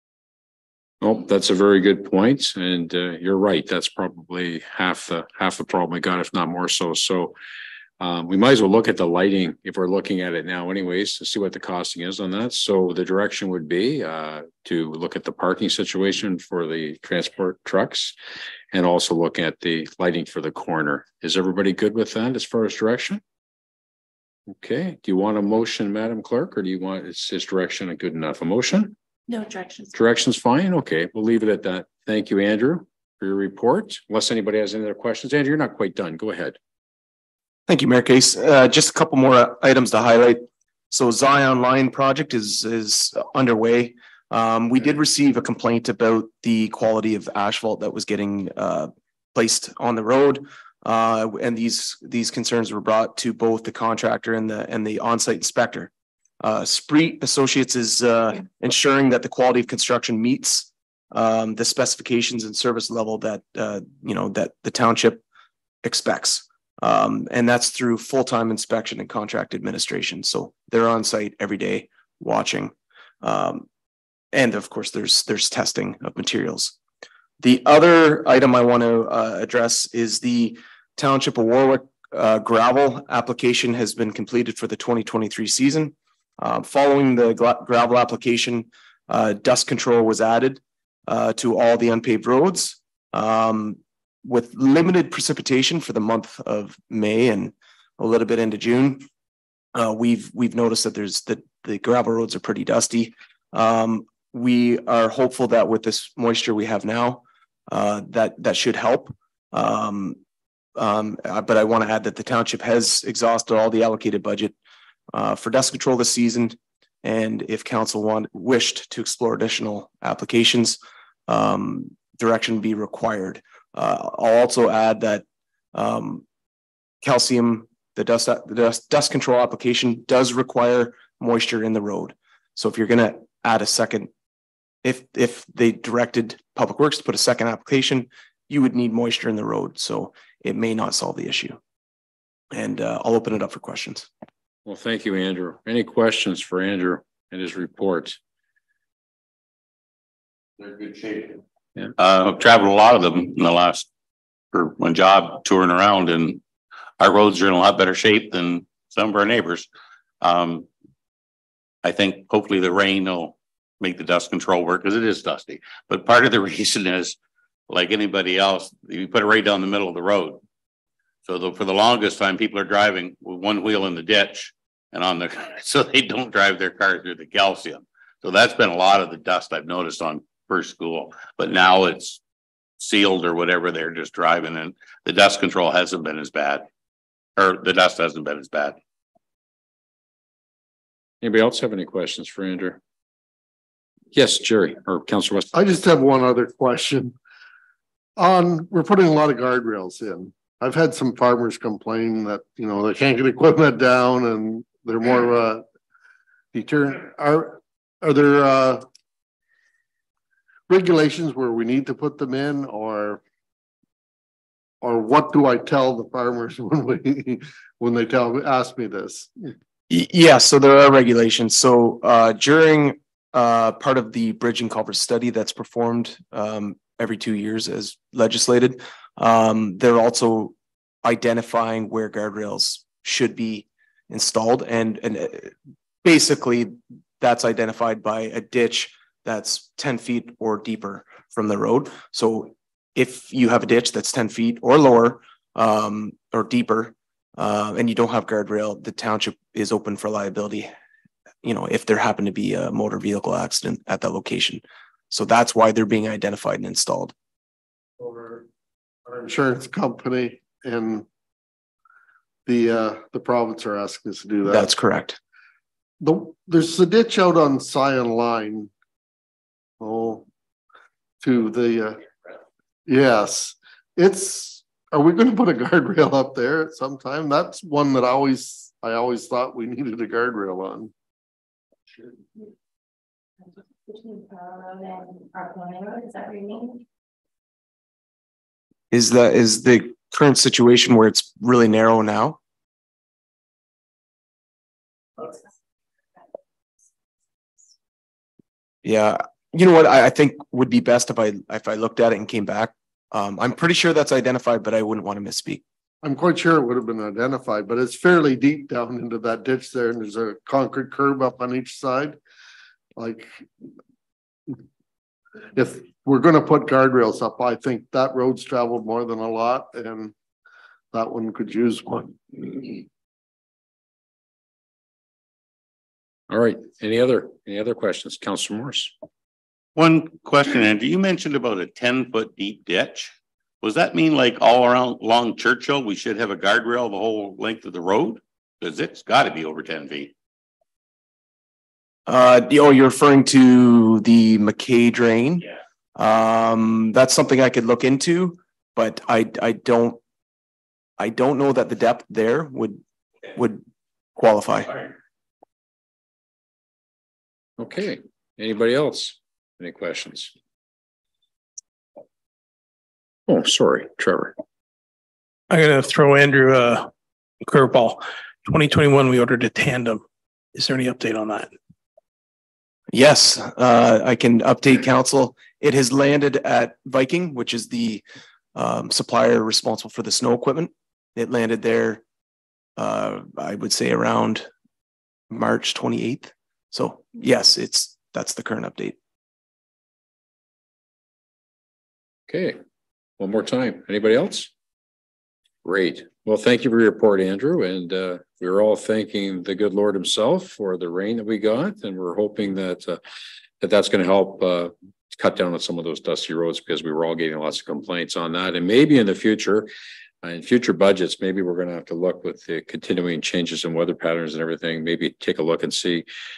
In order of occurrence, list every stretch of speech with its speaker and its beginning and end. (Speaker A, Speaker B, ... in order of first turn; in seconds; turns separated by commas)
Speaker A: 1.0-7.4, Speaker A: 8.0-18.2, Speaker A: 18.7-23.2, Speaker A: 24.5-28.9, Speaker B: 29.3-29.9, Speaker A: 29.9-36.6, Speaker C: 37.7-55.9, Speaker C: 56.4-65.2, Speaker C: 65.8-73.7, Speaker C: 74.3-76.8, Speaker C: 77.4-99.1, Speaker C: 99.7-110.2, Speaker C: 110.8-114.5, Speaker C: 115.1-126.2, Speaker C: 127.0-134.1, Speaker C: 134.8-141.6, Speaker C: 142.5-144.1, Speaker A: 144.7-148.2, Speaker D: 150.6-151.4, Speaker D: 152.0-153.9, Speaker D: 154.5-156.4, Speaker D: 157.0-159.7, Speaker D: 160.2-160.7, Speaker D: 161.8-167.2, Speaker D: 167.7-170.4, Speaker D: 171.3-182.2, Speaker D: 182.8-186.7, Speaker D: 187.4-188.8, Speaker A: 191.2-192.8, Speaker A: 194.1-195.5, Speaker E: 195.5-197.2, Speaker E: 198.2-205.6, Speaker E: 206.5-208.8, Speaker E: 210.7-213.2, Speaker E: 214.8-219.5, Speaker C: 219.9-235.5, Speaker C: 236.0-250.7, Speaker C: 251.4-257.1, Speaker E: 258.0-258.5, Speaker E: 259.1-261.1, Speaker E: 262.5-264.7, Speaker C: 264.5-265.2, Speaker E: 266.0-268.7, Speaker E: 269.8-270.3, Speaker E: 271.2-272.0, Speaker E: 272.9-280.9, Speaker B: 283.9-286.8, Speaker C: 288.9-292.4, Speaker C: 298.8-305.6, Speaker E: 306.0-312.2, Speaker E: 313.0-313.4, Speaker E: 315.6-320.1, Speaker E: 320.9-322.8, Speaker A: 326.3-328.9, Speaker D: 329.8-340.1, Speaker C: 342.1-345.4, Speaker C: 346.0-350.0, Speaker C: 351.0-352.8, Speaker C: 353.4-353.6, Speaker C: 354.2-354.8, Speaker A: 357.6-360.3, Speaker A: 363.3-364.4, Speaker F: 365.5-366.9, Speaker F: 367.4-370.0, Speaker F: 370.6-371.5, Speaker C: 372.9-378.0, Speaker C: 378.6-382.0, Speaker C: 382.8-384.5, Speaker C: 385.3-388.9, Speaker A: 392.3-392.6, Speaker A: 393.2-394.5, Speaker A: 395.6-403.0, Speaker A: 403.6-409.7, Speaker A: 410.2-416.1